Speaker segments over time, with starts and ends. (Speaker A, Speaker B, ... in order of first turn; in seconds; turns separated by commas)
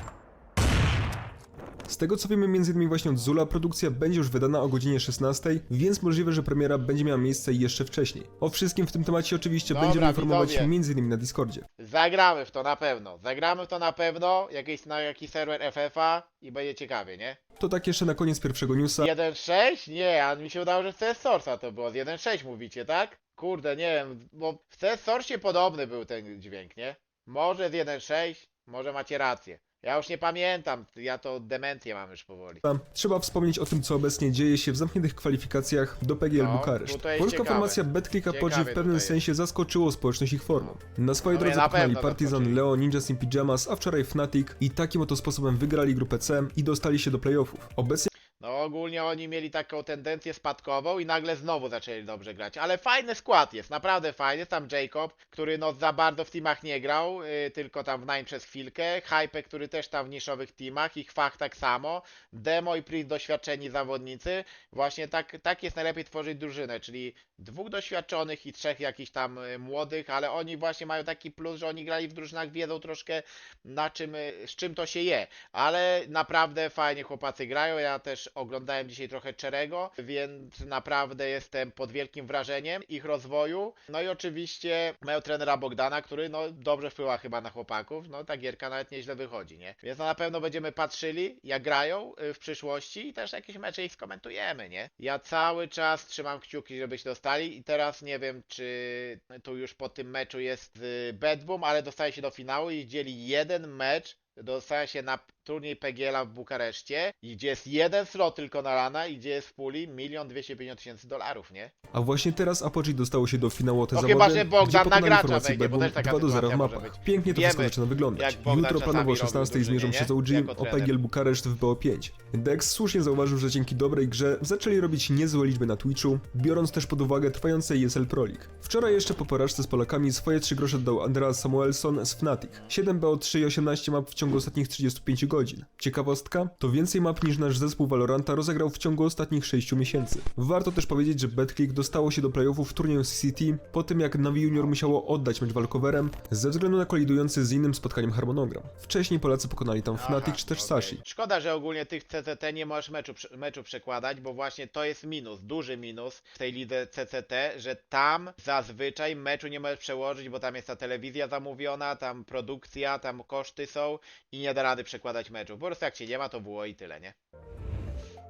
Speaker A: 1.9-11.7, Speaker B: 9.7-10.7, Speaker B: 11.8-17.4, Speaker A: 17.6-19.1, Speaker B: 19.0-32.6, Speaker A: 32.6-48.1, Speaker B: 36.4-39.2, Speaker B: 41.3-42.6, Speaker B: 48.4-111.7, Speaker A: 111.9-151.0, Speaker B: 113.9-120.9, Speaker B: 150.0-167.1